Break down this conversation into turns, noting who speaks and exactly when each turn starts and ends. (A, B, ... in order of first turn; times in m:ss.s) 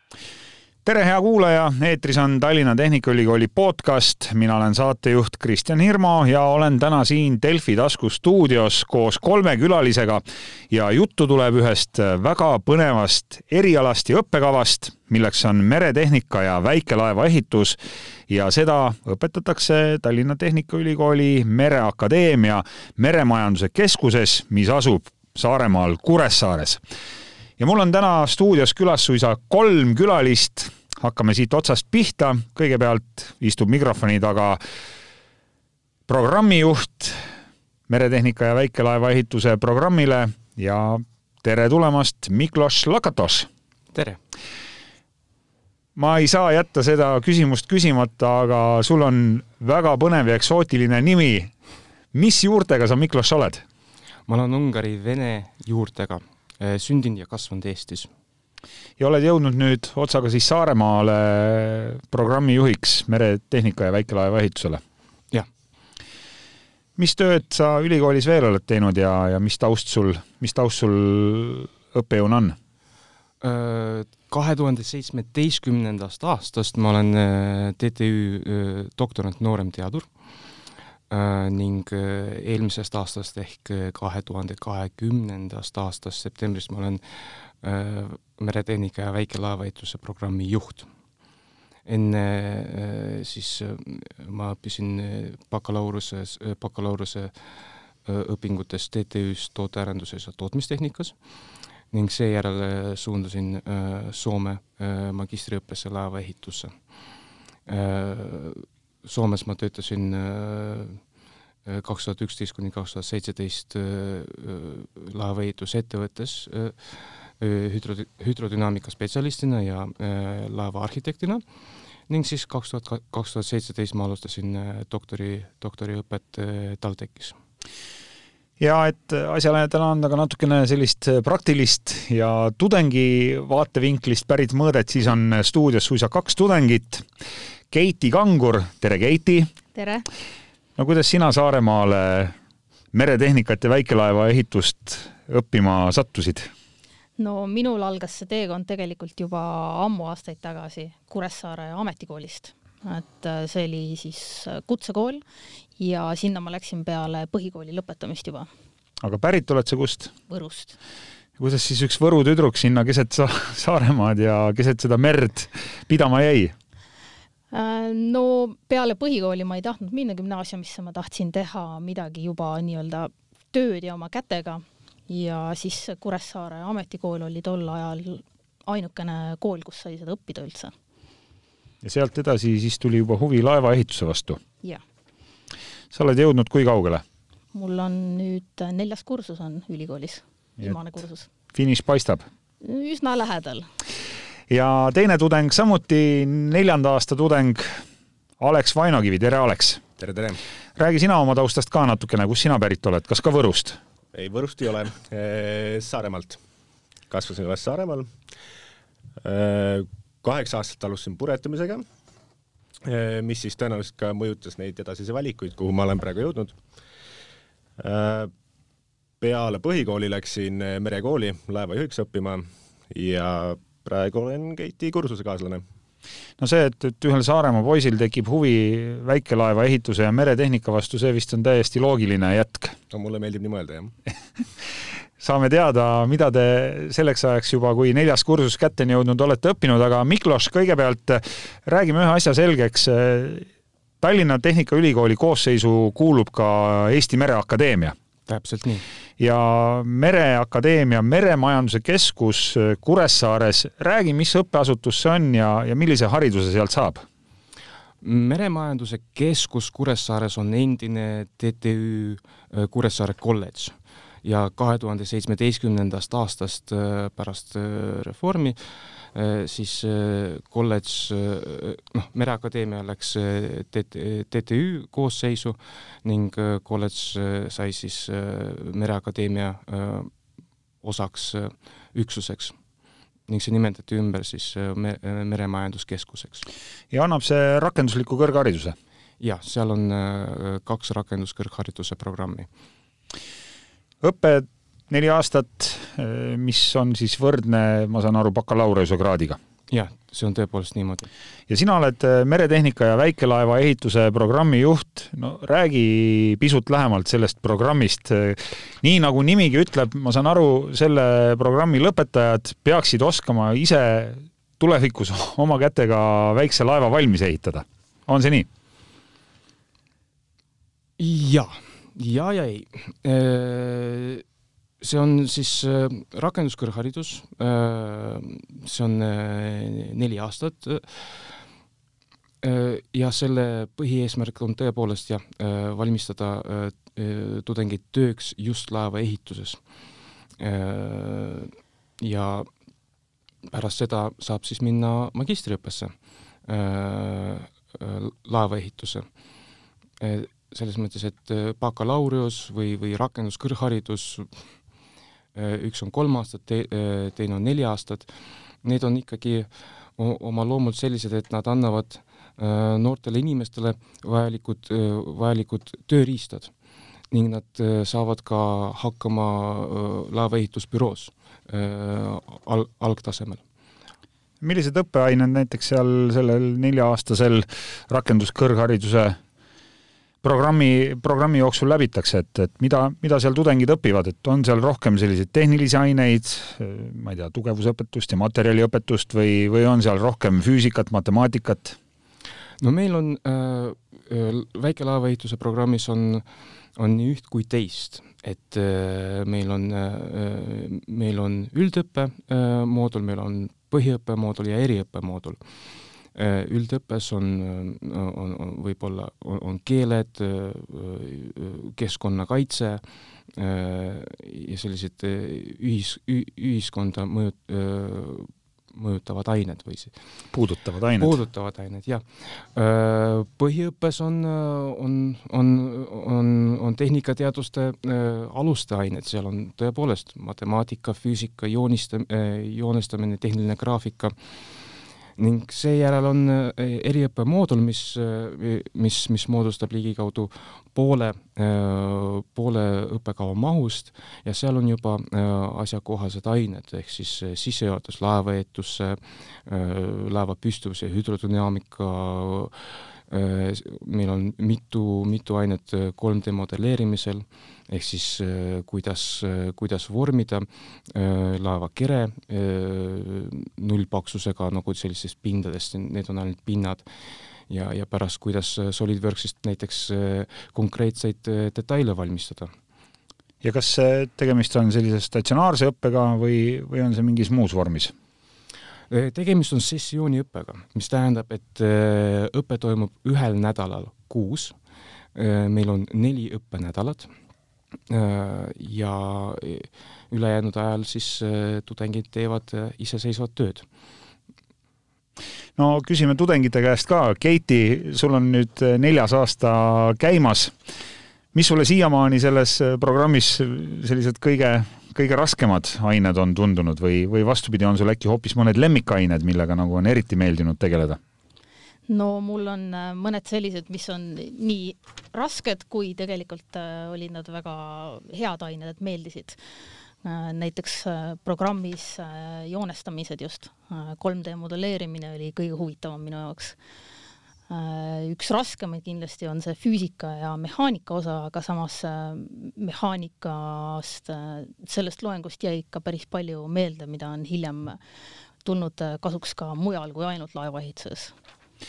0:00.8-0:26.8 A
0:27.6-0:34.6 A
0:36.1-0:37.2 A
0:37.9-0:43.5 A
0:43.9-0:44.2 B
0:46.0-0:51.5 A
0:52.1-0:53.6 A
0:54.3-0:58.1 B
0:59.0-1:04.8 A
1:07.0-1:12.6 A
1:13.4-1:20.1 B
1:21.1-1:30.9 B
1:31.9-1:41.2 B
1:41.9-1:46.8 B
1:47.7-1:51.0 B
1:51.6-2:01.4 B
2:02.1-2:07.4 B
2:08.6-2:17.1 A
2:17.7-2:19.5 A
2:19.8-2:20.1 C
2:20.8-2:22.3 A
2:22.9-2:26.5 A
2:27.2-2:35.2 C
2:35.8-2:38.5 C
2:39.0-2:40.1 A
2:40.3-2:40.8 C
2:41.4-2:46.5 A
2:47.5-3:00.7 C
3:01.8-3:04.4 A
3:05.9-3:07.0 A
3:07.5-3:11.3 C
3:11.5-3:12.2 A
3:12.6-3:13.7 C
3:14.5-3:17.8 A
3:18.4-3:19.8 A
3:20.0-3:20.4 D
3:20.8-3:23.8 A
3:24.1-3:26.4 D
3:27.1-3:28.1 D
3:29.2-3:31.8 D
3:32.9-3:36.6 D
3:37.8-3:38.3 D
3:39.2-3:45.6 D
3:46.4-3:52.8 A
3:52.9-3:53.9 D
3:55.2-4:03.5 A
4:04.0-4:08.0 A
4:08.3-4:08.8 B
4:09.2-4:17.0 A
4:18.0-4:40.1 B
4:40.8-4:42.6 B
4:43.3-4:46.4 B
4:46.9-4:48.8 A
4:49.2-4:52.5 B
4:54.0-4:59.4 A
4:59.7-5:01.1 B
5:01.5-5:18.5 A
5:21.0-5:24.2 B
5:24.8-5:31.4 B
5:32.4-5:39.6 B
5:40.4-5:42.5 B
5:43.5-5:45.9 B
5:46.5-5:49.1 B
5:50.0-5:54.5 B
5:55.4-5:58.1 B
5:58.6-6:06.5 B
6:07.1-6:13.4 B
6:14.4-6:19.2 A
6:20.2-6:31.8 A
6:32.6-6:36.2 B
6:36.8-6:45.4 B
6:46.1-6:52.8 B
6:53.3-6:59.9 B
7:00.3-7:01.2 A
7:01.0-7:14.6 B
7:15.2-7:46.8 B
7:47.5-7:52.5 B
7:53.4-7:57.9 A
7:58.9-8:04.6 B
8:05.2-8:07.1 B
8:07.9-8:13.7 B
8:15.6-8:20.6 A
8:21.3-8:31.0 A
8:31.9-8:39.4 C
8:40.0-8:46.6 C
8:47.5-8:57.8 C
8:58.4-9:01.1 C